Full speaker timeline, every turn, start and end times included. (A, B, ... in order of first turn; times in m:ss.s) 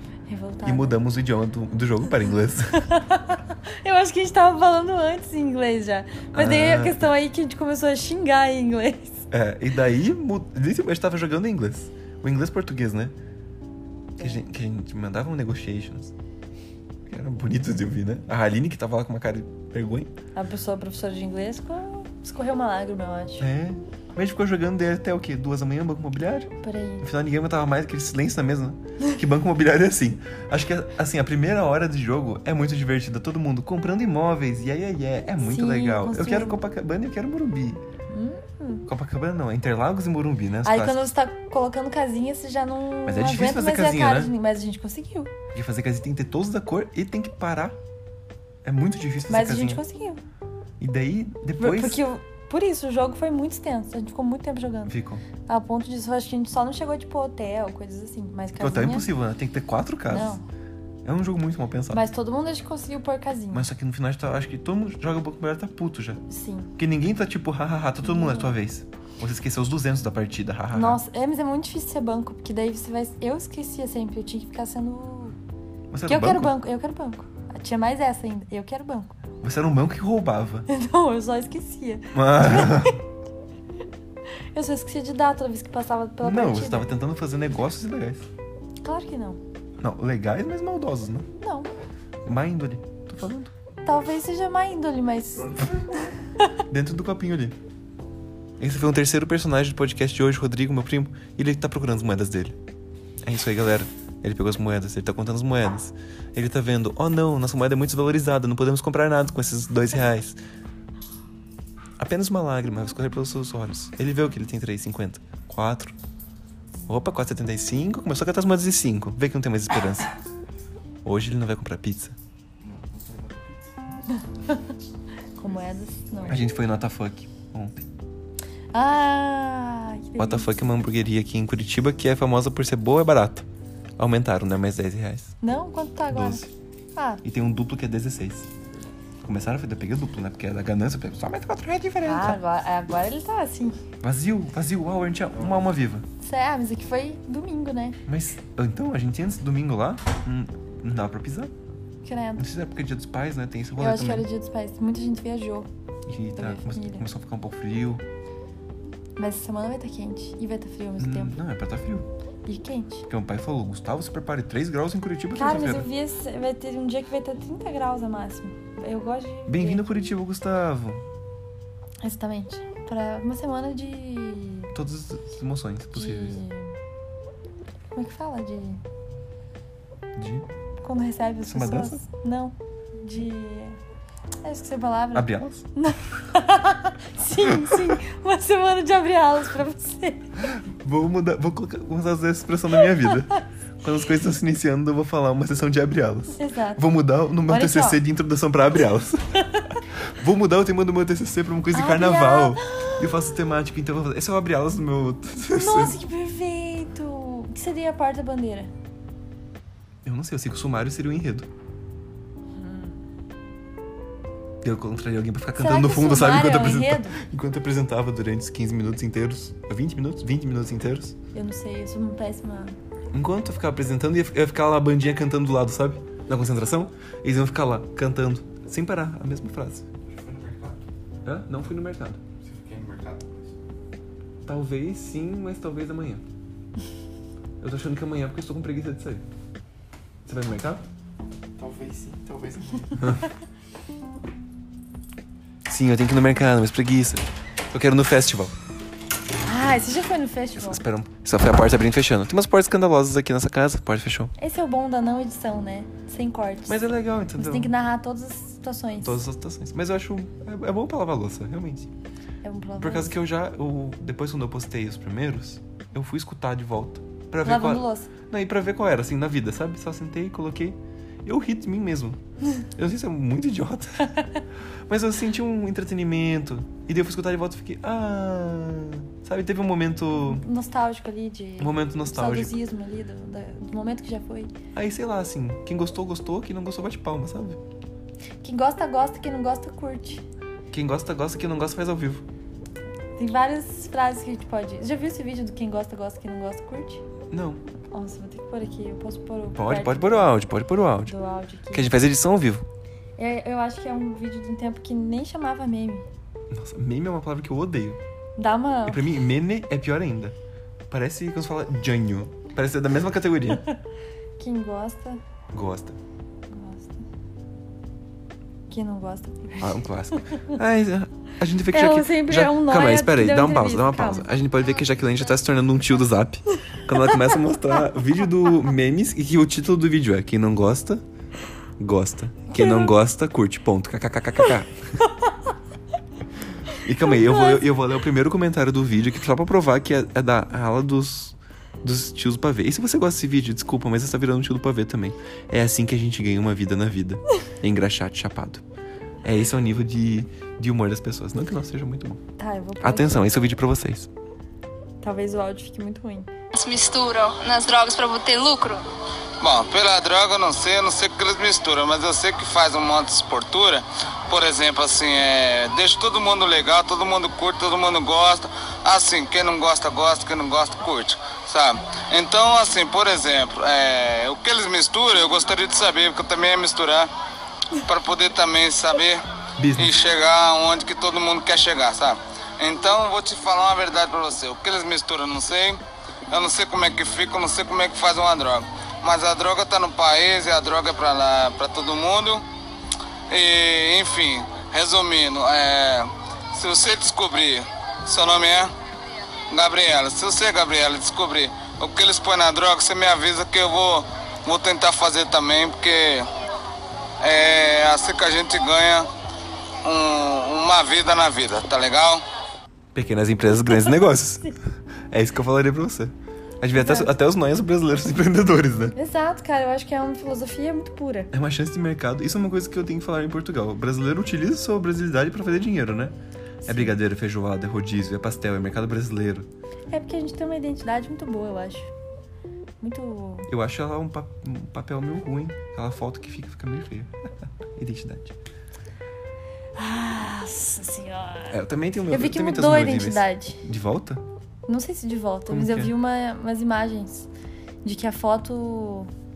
0:00.3-0:01.0 A
0:00.6-0:02.8 B
0:02.8-0:09.2 A
0:06.3-0:07.1 B
0:09.3-0:13.2 B
0:14.2-0:16.1 B
0:17.1-0:20.1 B
0:20.4-0:23.5 A
0:23.4-0:26.5 B
0:26.6-0:27.1 A
0:27.0-0:37.8 B
0:35.4-0:36.6 A
0:38.1-0:38.9 A
0:38.9-0:41.1 B
0:40.6-0:45.3 A
0:43.1-0:44.3 B
0:45.5-0:47.8 B
0:48.6-0:49.8 B
0:49.3-0:50.2 A
0:50.8-0:52.0 B
0:51.6-0:54.9 A
0:54.9-0:55.2 B
0:55.5-0:59.1 A
0:58.6-1:00.4 B
1:00.1-1:00.4 A
1:01.0-1:02.0 B
1:01.9-1:03.7 A
1:03.5-1:06.2 B
1:06.3-1:06.7 A
1:06.8-1:11.0 B
1:08.0-1:08.6 A
1:10.7-1:15.4 A
1:15.9-1:16.5 B
1:16.1-1:19.2 A
1:19.4-1:20.7 B
1:20.7-1:23.0 A
1:22.1-1:23.0 B
1:24.5-1:26.9 A
1:26.2-1:28.3 B
1:28.8-1:29.4 A
1:29.8-1:31.3 B
1:31.4-1:31.7 A
1:32.2-1:33.5 B
1:33.8-1:36.5 A
1:36.7-1:37.6 B
1:38.6-1:42.6 B
1:43.2-1:50.4 B
1:52.0-1:56.0 B
1:56.9-2:00.2 B
2:01.0-2:02.2 B
2:02.7-2:03.5 C
2:04.1-2:04.7 A
2:05.4-2:06.4 A
2:06.3-2:07.8 B
2:08.7-2:10.6 A
2:10.2-2:13.5 B
2:14.0-2:15.4 B
2:15.4-2:17.2 A
2:16.1-2:16.5 B
2:17.2-2:18.5 B
2:19.2-2:22.4 B
2:22.0-2:23.8 A
2:24.0-2:26.1 B
2:26.2-2:28.0 A
2:28.1-2:31.5 B
2:32.0-2:32.5 A
2:32.4-2:34.3 B
2:33.8-2:35.7 A
2:36.1-2:38.0 B
2:36.4-2:37.0 A
2:39.2-2:41.4 A
2:41.0-2:42.1 B
2:42.5-2:43.1 A
2:43.1-2:45.9 B
2:45.4-2:49.8 A
2:49.5-2:51.0 B
2:52.0-2:54.7 A
2:54.7-2:56.4 B
2:55.9-2:56.7 A
2:58.0-2:58.8 A
3:00.2-3:00.5 B
3:00.8-3:03.8 A
3:01.5-3:02.0 B
3:04.4-3:10.4 A
3:05.1-3:05.7 B
3:07.5-3:07.9 B
3:10.4-3:19.4 B
3:16.3-3:16.8 A
3:17.5-3:18.0 A
3:19.4-3:19.8 A
3:20.0-3:26.0 B
3:21.7-3:23.1 A
3:25.5-3:28.7 A
3:30.0-3:31.5 B
3:32.6-3:33.0 A
3:34.6-3:41.2 B
3:35.6-3:37.2 A
3:41.3-3:42.8 A
3:43.1-3:49.9 B
3:50.1-3:50.8 C
3:51.2-3:52.2 B
3:52.4-3:53.5 C
3:54.4-3:56.2 B
3:57.6-3:59.2 B
4:00.3-4:00.8 B
4:01.6-4:02.9 C
4:02.9-4:03.2 B
4:05.7-4:08.6 B
4:09.4-4:10.8 A
4:10.6-4:14.3 B
4:14.4-4:16.8 A
4:16.7-4:17.7 B
4:17.4-4:19.2 A
4:19.0-4:21.9 B
4:22.4-4:23.2 A
4:22.8-4:32.2 B
4:27.4-4:28.1 A
4:32.8-4:34.2 B
4:34.9-4:40.4 B
4:40.2-4:44.5 A
4:41.6-4:42.5 B
4:44.7-4:47.6 B
4:48.4-4:50.2 A
4:50.7-4:52.2 B
4:53.2-4:57.0 A
4:57.3-4:57.6 B
4:57.9-5:00.4 A
4:59.5-5:01.2 B
5:01.1-5:01.9 A
5:01.7-5:02.6 B
5:03.2-5:06.1 A
5:06.5-5:08.0 B
5:08.4-5:09.1 A
5:08.9-5:10.4 B
5:10.9-5:13.6 B
5:14.4-5:15.2 A
5:15.5-5:16.0 B
5:16.5-5:17.0 A
5:18.7-5:20.6 A
5:19.6-5:31.0 B
5:21.7-5:24.3 A
5:31.8-5:34.8 B
5:32.5-5:33.0 A
5:36.7-5:48.6 B
5:37.1-5:37.7 A
5:49.2-5:52.2 B
5:52.4-5:53.3 A
5:52.8-5:54.1 B
5:55.0-5:56.3 A
5:56.5-5:58.8 D
5:59.4-6:17.1 E
6:17.7-6:19.2 E
6:19.6-6:20.0 B
6:19.8-6:32.4 E
6:33.3-6:38.7 E
6:39.5-6:46.3 E
6:47.2-6:49.1 E
6:49.8-6:52.2 E
6:52.9-6:54.6 B
6:55.1-6:59.0 B
6:56.8-6:57.1 A
6:59.0-7:01.3 A
7:01.3-7:09.5 B
7:06.6-7:06.9 A
7:09.9-7:11.9 A
7:12.8-7:13.5 A
7:13.5-7:17.1 B
7:17.7-7:18.4 B
7:19.8-7:21.6 A
7:21.5-7:24.2 B
7:22.1-7:23.6 A
7:24.7-7:27.3 A
7:25.5-7:25.9 B
7:27.8-7:29.1 A